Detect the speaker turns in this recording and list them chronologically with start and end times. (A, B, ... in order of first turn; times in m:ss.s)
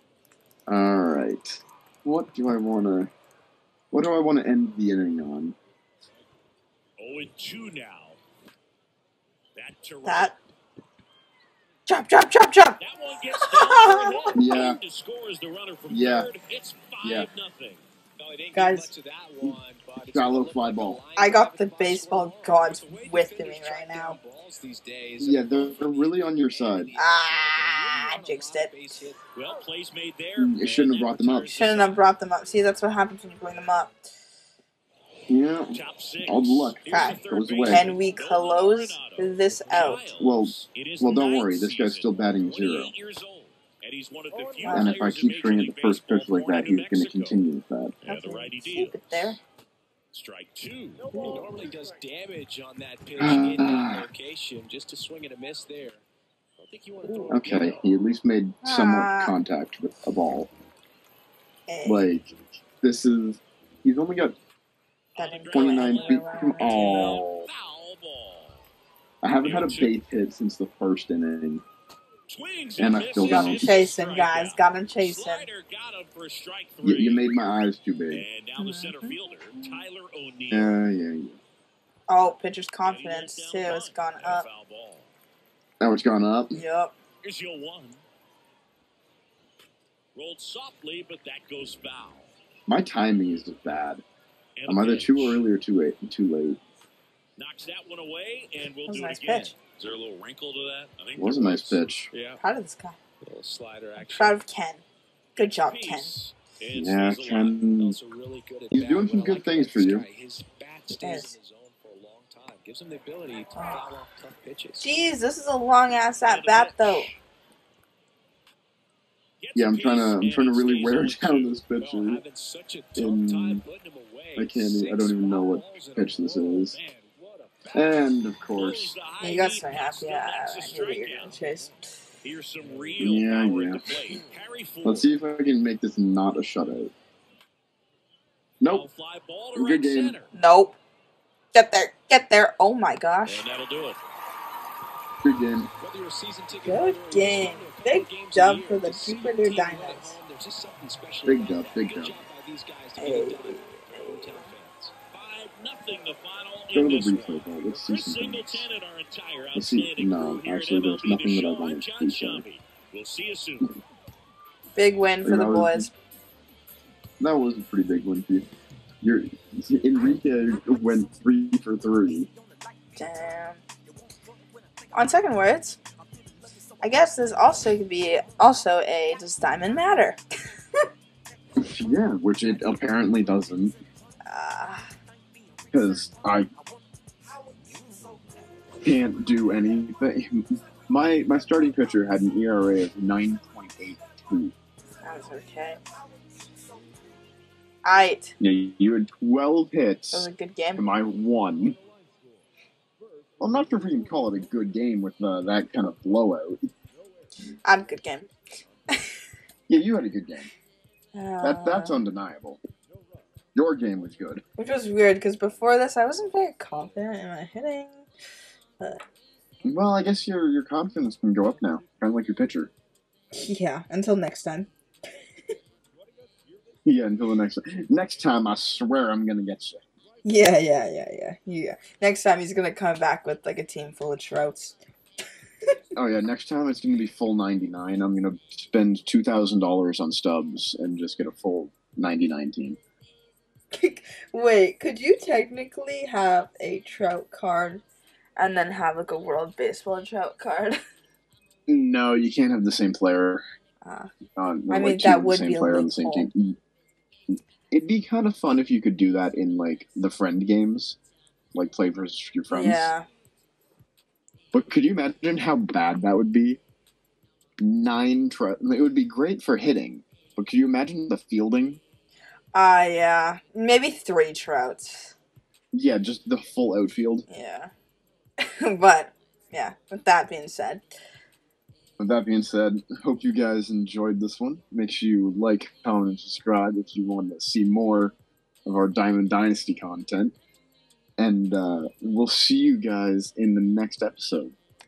0:00.7-0:03.1 A
0:03.9-0:05.6 A
0:07.0-0:08.2 B
0:09.6-0:10.4 B
0:10.0-0:10.4 C
0:11.9-0:14.4 C
0:12.8-0:17.9 B
0:14.4-0:14.8 A
0:15.9-0:16.3 A
0:17.0-0:17.3 A
0:18.2-0:29.2 D
0:18.5-0:18.9 C
0:19.4-0:21.0 A
0:21.2-0:24.2 C
0:25.2-0:26.9 A
0:27.0-0:28.7 C
0:29.3-0:32.0 B
0:30.4-0:31.5 A
0:31.5-0:34.0 C
0:35.3-0:37.9 A
0:35.7-0:47.4 B
0:36.9-0:40.0 C
0:40.2-0:42.9 A
0:44.6-0:45.0 C
0:44.7-0:48.0 A
0:48.0-0:49.4 B
0:48.1-0:49.4 C
0:50.1-0:51.3 B
0:51.1-0:51.6 C
0:51.2-0:56.0 D
0:53.2-0:54.1 A
0:56.6-0:57.8 D
0:57.0-0:57.4 C
0:57.3-1:00.5 A
0:57.4-0:57.8 B
0:58.6-0:59.4 C
1:01.7-1:02.1 C
1:01.8-1:04.4 A
1:05.2-1:08.6 B
1:05.2-1:07.2 C
1:05.5-1:07.5 A
1:09.2-1:11.6 A
1:09.4-1:09.9 B
1:12.3-1:17.3 B
1:12.8-1:13.8 A
1:13.2-1:15.5 C
1:16.8-1:18.3 A
1:18.1-1:20.8 B
1:18.6-1:19.8 C
1:20.5-1:21.4 A
1:22.1-1:24.5 C
1:22.8-1:25.1 B
1:25.8-1:26.6 A
1:26.5-1:26.9 C
1:27.2-1:28.0 B
1:30.2-1:32.3 B
1:32.7-1:34.0 A
1:34.6-1:35.4 B
1:34.7-1:36.6 A
1:37.4-1:42.4 B
1:38.9-1:39.6 C
1:41.2-1:42.1 A
1:42.4-1:43.0 C
1:43.2-1:44.4 D
1:44.0-1:44.8 C
1:45.4-1:46.2 C
1:45.4-1:47.6 B
1:46.7-1:48.0 A
1:47.8-1:54.9 D
1:48.7-1:50.1 A
1:50.9-1:51.3 C
1:53.5-1:54.0 C
1:54.8-1:57.1 C
1:56.2-1:57.2 B
1:59.4-2:01.6 B
1:59.6-2:02.2 A
2:01.8-2:08.1 D
2:03.0-2:03.6 A
2:04.4-2:06.8 A
2:07.7-2:09.0 A
2:08.5-2:11.4 B
2:09.2-2:11.8 C
2:12.2-2:15.1 B
2:12.6-2:13.2 D
2:13.0-2:13.9 A
2:14.8-2:16.9 A
2:18.6-2:18.9 A
2:18.7-2:20.3 B
2:19.6-2:20.2 A
2:20.3-2:20.8 C
2:21.5-2:23.5 C
2:23.2-2:24.0 B
2:25.2-2:25.7 A
2:25.8-2:34.9 D
2:26.6-2:30.2 C
2:31.2-2:32.2 A
2:33.0-2:34.5 C
2:35.1-2:43.8 B
2:36.7-2:38.7 A
2:39.5-2:42.4 A
2:44.8-2:45.9 C
2:45.2-2:45.9 A
2:47.2-2:48.5 A
2:49.0-2:52.3 A
2:53.0-2:53.6 C
2:54.9-2:55.8 C
2:56.8-3:00.2 C
3:01.6-3:03.8 A
3:04.2-3:04.9 C
3:05.7-3:06.5 A
3:08.8-3:14.5 A
3:15.0-3:15.8 C
3:17.8-3:18.4 C
3:18.4-3:21.8 A
3:20.1-3:20.9 C
3:23.4-3:26.7 A
3:27.6-3:28.3 C
3:29.7-3:30.5 A
3:31.1-3:32.0 C
3:31.4-3:32.6 A
3:33.6-3:34.4 A
3:34.6-3:38.1 C
3:39.6-3:42.7 A
3:43.3-3:44.7 C
3:46.8-3:49.8 A
3:50.2-3:54.8 C
3:56.0-4:02.8 A
4:03.7-4:07.8 C
4:08.4-4:10.8 C
4:11.7-4:13.4 A
4:13.8-4:14.1 C
4:14.4-4:16.6 A
4:14.7-4:16.3 C
4:17.3-4:21.0 A
4:21.5-4:22.9 A
4:22.5-4:23.1 C
4:24.5-4:26.6 A
4:27.6-4:31.8 A
4:32.5-4:35.2 C
4:35.7-4:37.3 A
4:37.3-4:37.7 C
4:38.4-4:40.8 C
4:42.0-4:48.1 A
4:48.6-4:50.4 A
4:51.2-4:54.6 A